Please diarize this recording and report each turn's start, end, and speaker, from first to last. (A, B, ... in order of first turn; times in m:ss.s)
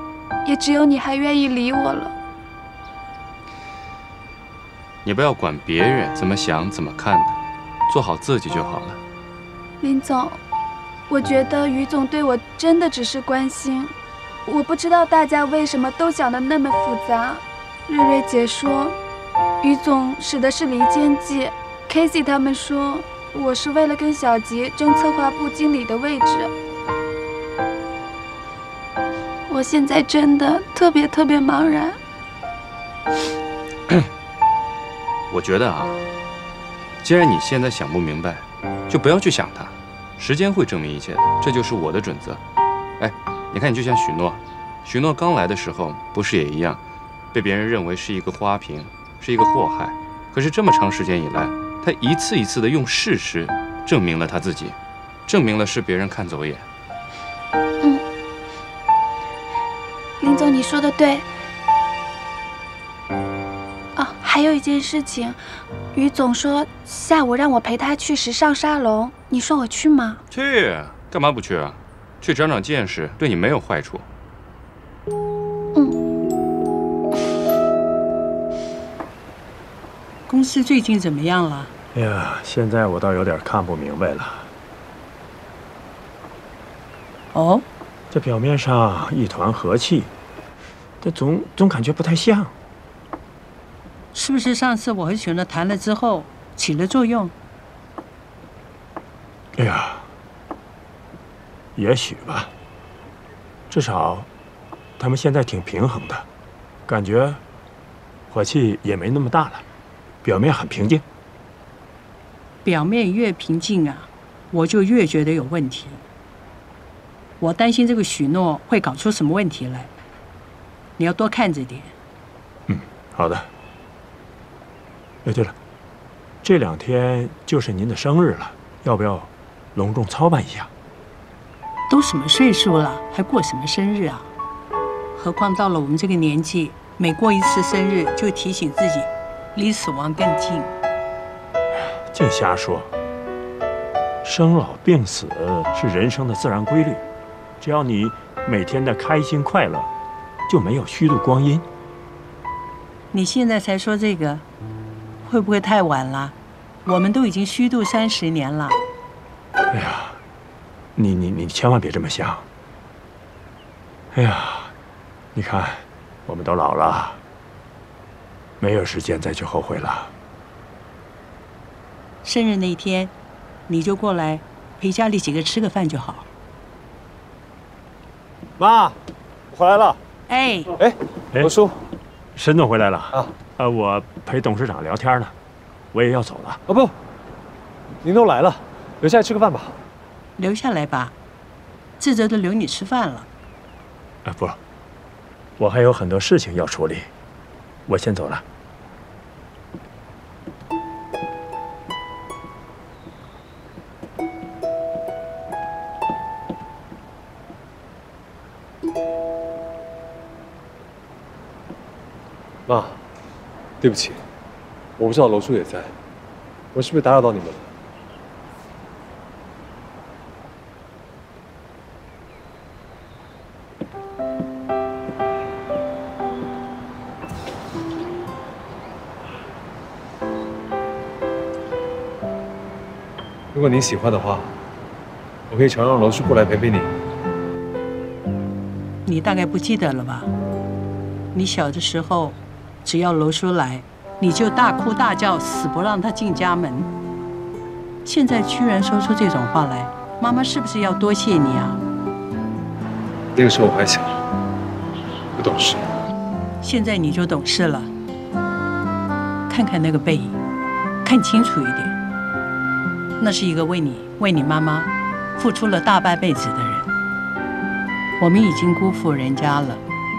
0:00.4-0:02.1 A
0:05.0-0:07.4 B
0:07.9-0:09.0 B
0:09.8-0:10.4 A
0:11.1-0:13.9 A
0:14.5-0:19.0 A
0:19.6-0:26.5 A
0:29.5-0:32.0 A
0:35.3-0:36.0 B
0:37.0-0:42.4 B
0:43.0-0:46.8 B
0:47.3-0:54.8 B
0:55.3-0:56.7 B
1:00.2-1:01.3 A
1:04.0-1:05.4 A
1:05.9-1:10.2 A
1:10.3-1:14.1 B
1:20.3-1:21.7 C
1:21.9-1:24.5 D
1:27.3-1:27.6 C
1:28.1-1:30.1 D
1:31.0-1:32.5 D
1:34.1-1:37.3 C
1:39.6-1:40.1 D
1:41.8-1:42.5 D
1:43.7-1:44.3 D
1:45.0-1:46.3 D
1:46.9-1:47.4 D
1:48.3-1:49.6 D
1:50.2-1:51.0 D
1:52.6-1:56.0 C
1:57.4-1:59.9 C
2:01.0-2:01.9 C
2:02.7-2:03.5 D
2:05.2-2:05.6 D
2:06.4-2:10.7 D
2:11.9-2:14.3 C
2:15.2-2:20.7 C
2:21.9-2:22.9 D
2:24.2-2:27.0 D
2:27.6-2:29.9 D
2:30.5-2:31.7 D
2:33.1-2:34.4 C
2:35.3-2:36.3 C
2:36.9-2:38.8 C
2:39.7-2:40.2 D
2:41.0-2:42.5 D
2:44.1-2:44.7 D
2:45.4-2:47.2 D
2:48.6-2:50.1 D
2:52.2-2:53.1 C
2:53.7-2:56.2 C
2:58.6-2:59.0 E
2:59.5-3:00.0 E
3:00.3-3:00.6 C
3:00.8-3:01.8 E
3:02.4-3:05.3 D
3:05.9-3:06.6 D
3:06.7-3:06.9 E
3:08.0-3:09.8 E
3:10.4-3:11.1 C
3:12.0-3:13.3 C
3:14.2-3:14.6 D
3:15.6-3:17.1 D
3:17.9-3:18.4 D
3:32.7-3:33.0 E
3:33.8-3:34.2 E
3:35.0-3:35.9 E
3:36.7-3:37.7 E
3:53.5-3:54.5 E
3:55.5-3:56.9 E
3:59.1-4:00.3 C
4:01.3-4:06.9 C
4:08.0-4:11.8 C
4:13.4-4:14.0 E
4:15.4-4:15.8 E
4:16.6-4:17.9 C
4:19.5-4:20.4 C
4:21.0-4:21.9 C
4:23.2-4:26.9 C
4:28.2-4:29.8 C